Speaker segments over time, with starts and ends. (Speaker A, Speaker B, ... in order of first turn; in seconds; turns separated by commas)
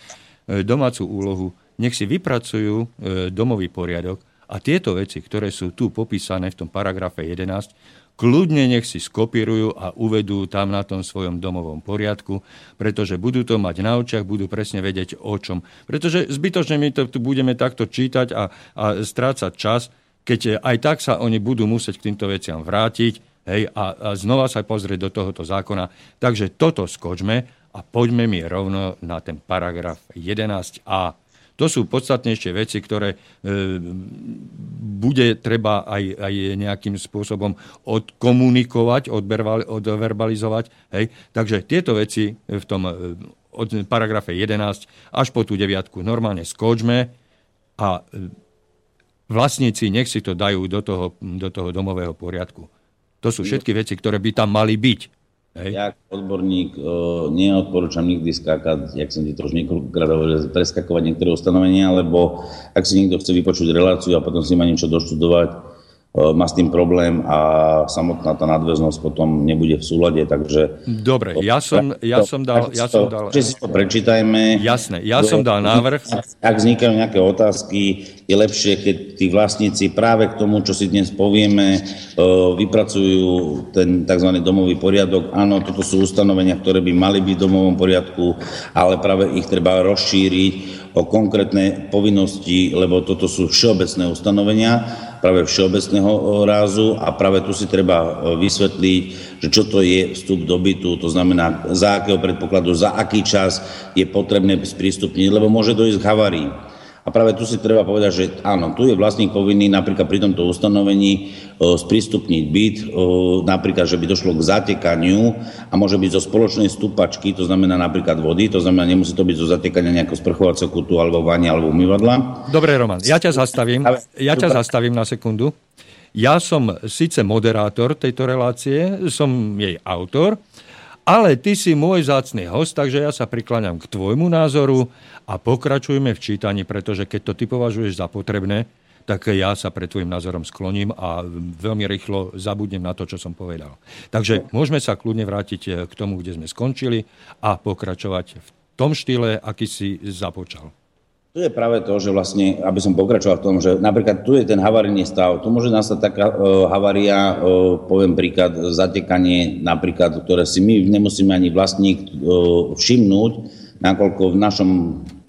Speaker A: 0.5-47.1, Speaker A: 47.8-48.3, Speaker A: 49.3-52.7, Speaker A: 53.2-55.8, Speaker B: 55.7-70.8, Speaker A: 70.8-73.6, Speaker B: 71.3-74.7, Speaker A: 74.5-76.1, Speaker B: 75.2-106.5, Speaker B: 107.0-122.5, Speaker A: 122.5-125.5, Speaker B: 123.8-124.5, Speaker A: 126.1-130.4, Speaker A: 131.1-150.7, Speaker B: 151.3-165.1